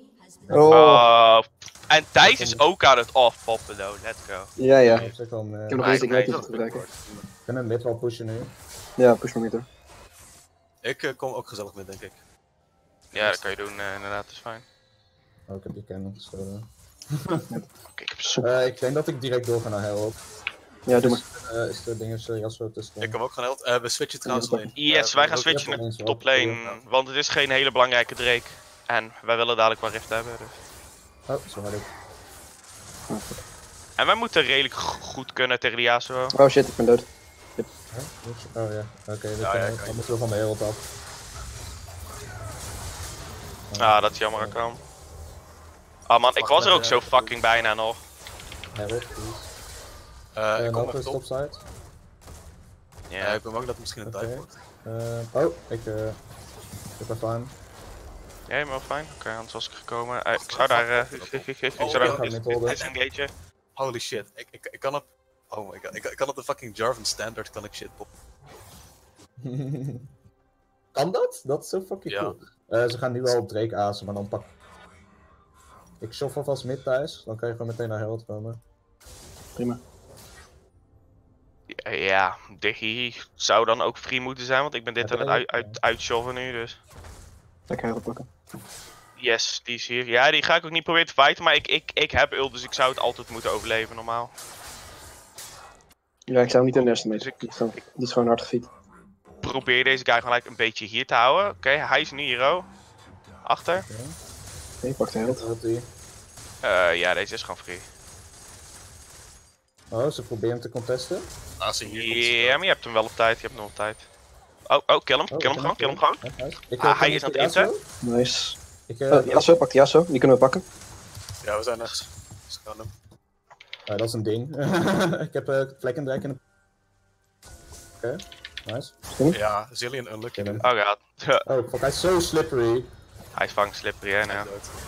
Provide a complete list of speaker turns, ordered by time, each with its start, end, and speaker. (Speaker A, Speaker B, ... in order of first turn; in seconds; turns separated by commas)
Speaker A: 0.5-1.1, Speaker B: 0.5-1.1, Speaker C: 0.7-4.5, Speaker A: 2.2-2.7, Speaker B: 4.6-5.0, Speaker D: 4.8-5.1, Speaker A: 4.8-5.9, Speaker B: 5.7-6.8, Speaker D: 5.8-7.3, Speaker C: 5.8-6.4, Speaker A: 7.5-8.5, Speaker B: 9.0-9.7, Speaker D: 10.8-12.2, Speaker C: 13.1-14.6, Speaker A: 13.2-13.4, Speaker A: 15.5-16.7, Speaker C: 17.9-18.8, Speaker A: 18.4-20.2, Speaker B: 20.9-21.2, Speaker A: 20.9-23.2, Speaker D: 23.0-25.9, Speaker B: 24.2-24.7, Speaker C: 24.8-30.6, Speaker A: 25.5-26.6, Speaker A: 31.3-31.9, Speaker B: 33.1-33.4, Speaker C: 34.0-36.4, Speaker B: 36.3-37.7, Speaker A: 37.9-40.9, Speaker D: 39.4-40.2, Speaker A: 43.7-44.6, Speaker C: 43.8-44.8, Speaker C: 46.1-48.0, Speaker D: 46.4-47.3, Speaker A: 46.6-47.1, Speaker A: 48.7-49.5, Speaker D: 50.3-51.2, Speaker A: 50.5-51.6, Speaker C: 53.1-53.4, Speaker D: 53.2-54.6, Speaker A: 54.0-56.2, Speaker A: 57.0-57.6, Speaker C: 58.5-63.3, Speaker D: 60.4-62.4, Speaker A: 61.8-62.8, Speaker D: 63.8-68.1, Speaker A: 69.4-70.1, Speaker A: 70.9-74.5, Speaker D: 72.1-72.3, Speaker A: 76.0-78.6, Speaker C: 81.7-86.8, Speaker A: 85.0-85.8, Speaker B: 87.7-88.3, Speaker C: 89.2-94.3, Speaker B: 96.3-98.7, Speaker C: 96.7-97.8, Speaker C: 99.4-102.7, Speaker C: 103.5-103.9, Speaker A: 103.7-104.2, Speaker B: 104.8-105.4, Speaker A: 105.2-105.9, Speaker C: 106.6-107.9, Speaker A: 109.9-111.3, Speaker D: 111.6-112.6, Speaker C: 111.8-114.1, Speaker C: 114.7-116.2, Speaker A: 115.3-117.8, Speaker C: 116.8-117.7, Speaker B: 118.0-118.6, Speaker A: 118.9-119.6, Speaker B: 119.1-120.6, Speaker D: 121.4-122.9, Speaker A: 123.9-126.4, Speaker A: 128.0-128.9, Speaker B: 129.1-129.4, Speaker D: 129.3-130.6, Speaker A: 130.4-130.7, Speaker C: 130.6-131.4, Speaker A: 131.5-132.9, Speaker C: 133.3-134.5, Speaker D: 134.2-134.7